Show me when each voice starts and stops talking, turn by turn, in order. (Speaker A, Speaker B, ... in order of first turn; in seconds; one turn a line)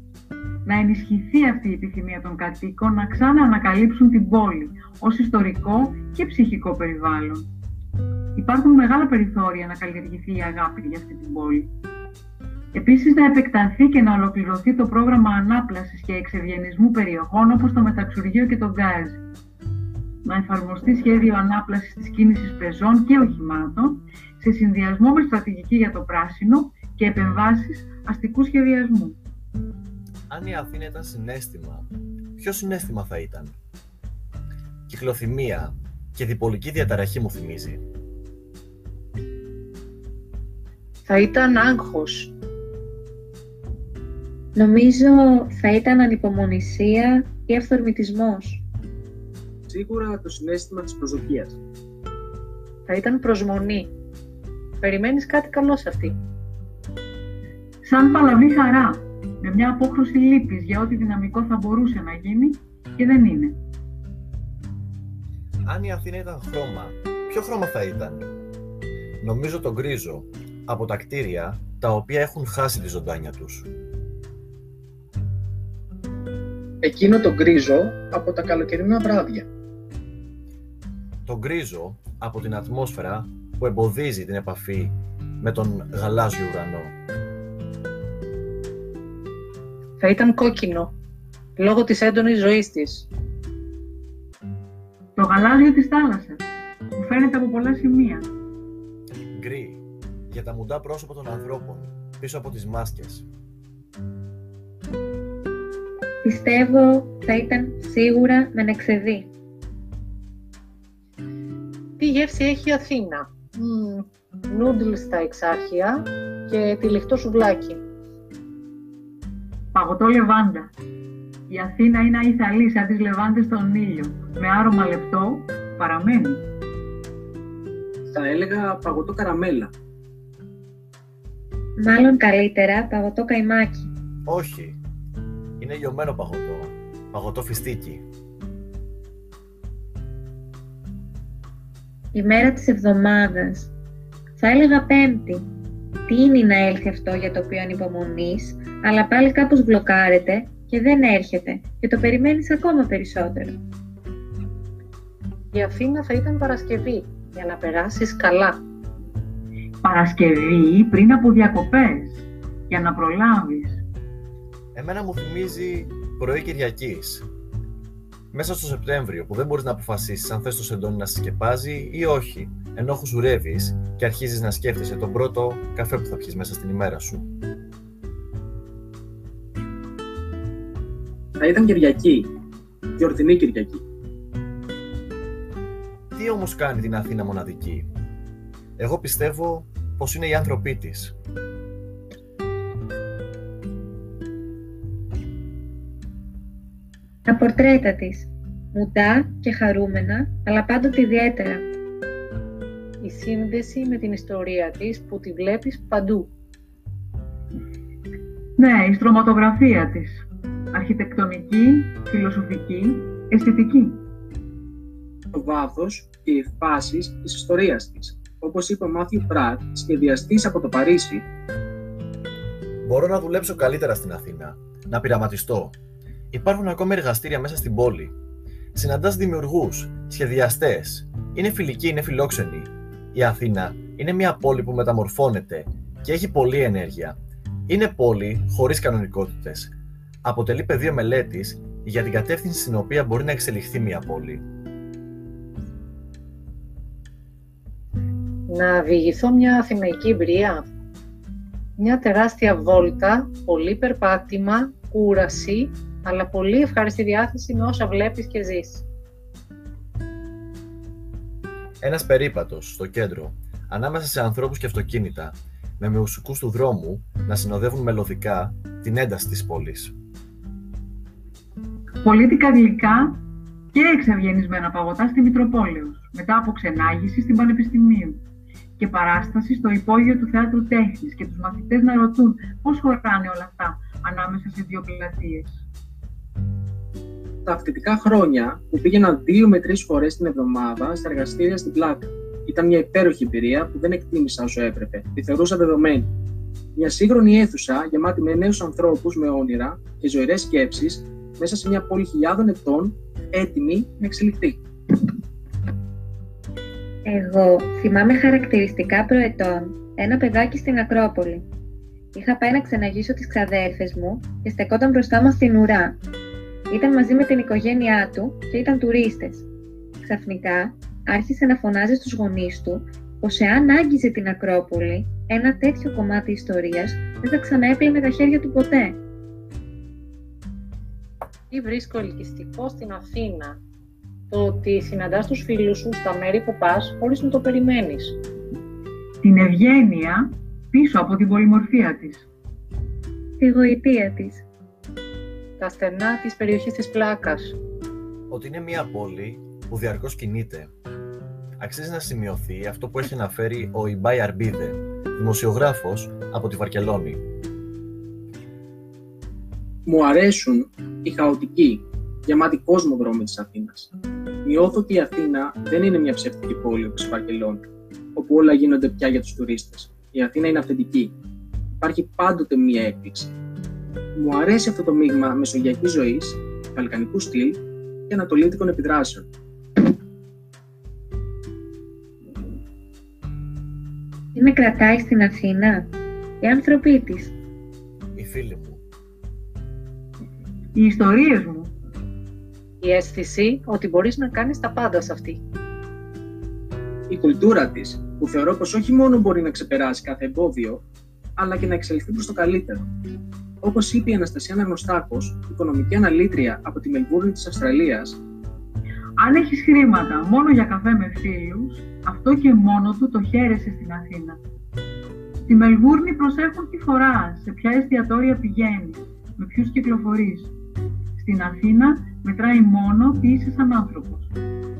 Speaker A: 0.6-7.5
Speaker A: 8.3-11.7
Speaker A: 12.7-19.2
Speaker A: 20.2-29.2
Speaker B: 30.3-31.9
Speaker B: 32.4-33.6
Speaker B: 34.9-37.8
Speaker C: 41.0-42.3
Speaker D: 44.5-48.6
Speaker E: 49.7-51.6
Speaker C: 52.9-53.9
Speaker C: 54.8-56.1
Speaker A: 57.8-63.6
Speaker B: 65.7-68.3
Speaker B: 69.2-73.7
Speaker E: 76.8-79.5
Speaker B: 81.2-86.9
Speaker C: 90.0-90.9
Speaker C: 91.6-93.1
Speaker A: 95.2-96.4
Speaker A: 96.9-98.3
Speaker B: 99.3-103.3
Speaker D: 106.2-109.3
Speaker C: 112.0-117.8
Speaker A: 119.7-120.7
Speaker A: 121.5-126.4
Speaker E: 128.1-129.7
Speaker D: 131.8-133.9
Speaker B: 134.2-134.8
Speaker B: 135.6-138.0
Speaker D: 142.1-143.7
Speaker D: 144.4-145.5
Speaker D: 146.1-153.6
Speaker C: 155.5-158.6
Speaker A: 159.8-163.8
Speaker B: 164.7-167.3
Speaker B: 168.3-177.3
Speaker E: 181.4-182.3
Speaker E: 183.0-183.8
Speaker B: 186.1-187.9
Speaker B: 188.8-191.1
Speaker D: 197.3-201.7
Speaker C: 203.0-206.3
Speaker A: 208.6-214.0
Speaker E: 215.3-221.2
Speaker B: 222.8-225.8
Speaker B: 226.3-228.1
Speaker B: 228.7-237.2
Speaker B: 237.7-244.4
Speaker C: 248.5-250.6
Speaker C: 251.8-258.9
Speaker B: 261.8-269.9
Speaker A: 272.0-273.2
Speaker A: 273.7-278.2
Speaker A: 278.8-285.6
Speaker E: 287.4-296.1
Speaker E: 296.7-304.6
Speaker D: 307.1-311.4
Speaker D: 312.1-316.0
Speaker D: 316.7-319.5
Speaker D: 320.0-329.0
Speaker C: 331.5-333.6
Speaker C: 334.3-338.2
Speaker A: 339.2-342.3
Speaker D: 343.4-344.4
Speaker C: 345.6-347.6
Speaker B: 348.3-350.7
Speaker B: 351.6-357.2
Speaker E: 359.9-363.9
Speaker E: 364.4-371.1
Speaker E: 371.8-373.4
Speaker E: 374.1-379.2
Speaker D: 384.3-387.4
Speaker B: 388.1-388.8
Speaker A: 390.7-391.7
Speaker C: 392.8-395.4
Speaker E: 397.1-400.8
Speaker E: 401.4-402.9
Speaker E: 403.6-408.2
Speaker A: 409.2-414.4
Speaker A: 415.4-420.5
Speaker A: 421.1-424.3